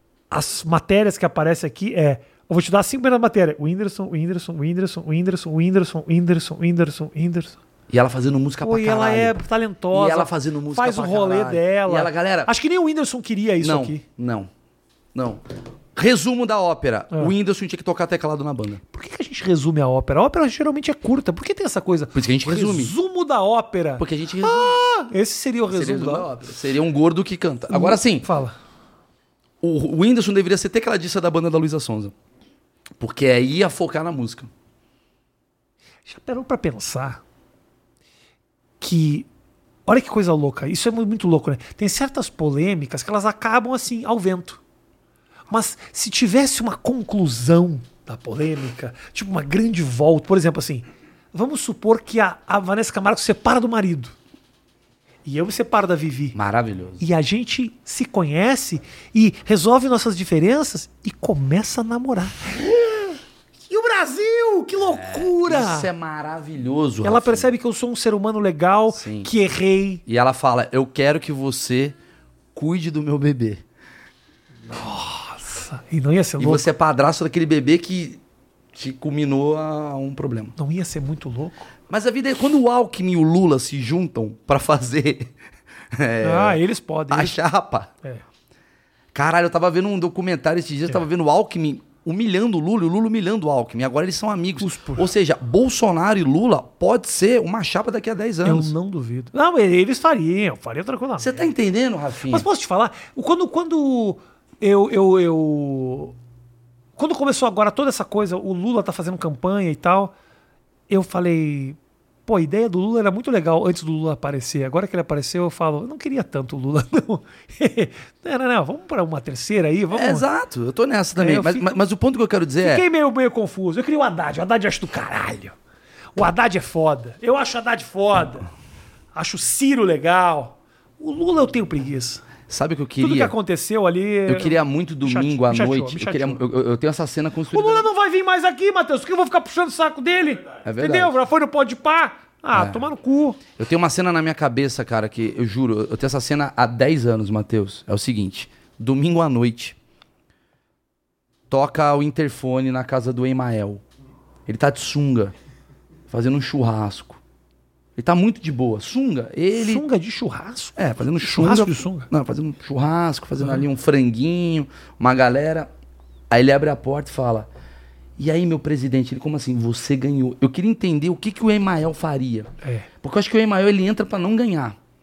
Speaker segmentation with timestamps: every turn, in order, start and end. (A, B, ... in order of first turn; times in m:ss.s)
0:00.3-0:07.6 A
0:07.9-0:09.4 B
0:08.6-0:14.0 A
0:09.9-0:12.5 B
0:13.6-0:14.5 B
0:15.1-0:15.4 B
0:15.9-0:18.8 B
0:18.9-0:26.3 A
0:22.1-0:22.9 B
0:24.0-0:24.8 B
0:25.7-0:28.3 B
0:27.7-0:28.5 A
0:29.6-0:32.1 B
0:33.0-0:34.5 B
0:36.0-0:37.2 A
0:38.8-0:39.3 A
0:39.9-0:44.6 A
0:45.5-0:54.1 A
0:55.2-0:56.4 A
0:56.3-0:57.0 B
0:57.0-1:05.9 A
1:04.8-1:07.5 B
1:07.0-1:10.0 A
1:08.9-1:09.3 B
1:10.0-1:11.9 B
1:12.5-1:13.6 B
1:14.7-1:16.7 A
1:16.4-1:18.2 B
1:18.7-1:20.5 B
1:20.6-1:21.7 A
1:21.9-1:25.3 B
1:25.9-1:27.9 B
1:26.2-1:27.4 A
1:29.1-1:38.7 B
1:34.6-1:35.1 A
1:38.4-1:41.5 A
1:41.2-1:42.5 B
1:42.3-1:46.1 A
1:47.0-1:50.1 A
1:50.9-2:00.3 A
1:59.9-2:02.8 B
2:01.2-2:01.8 A
2:02.6-2:05.6 A
2:06.2-2:08.5 A
2:09.1-2:12.2 A
2:12.5-2:13.3 B
2:13.0-2:16.4 A
2:14.3-2:17.8 B
2:17.5-2:23.4 A
2:20.6-2:21.1 B
2:22.5-2:22.9 B
2:23.6-2:29.8 B
2:31.5-2:33.8 B
2:34.4-2:35.3 B
2:36.1-2:37.2 B
2:38.0-2:39.8 B
2:39.6-2:42.1 A
2:40.8-2:45.7 B
2:46.3-2:47.5 B
2:48.2-2:54.8 B
2:52.6-2:52.9 A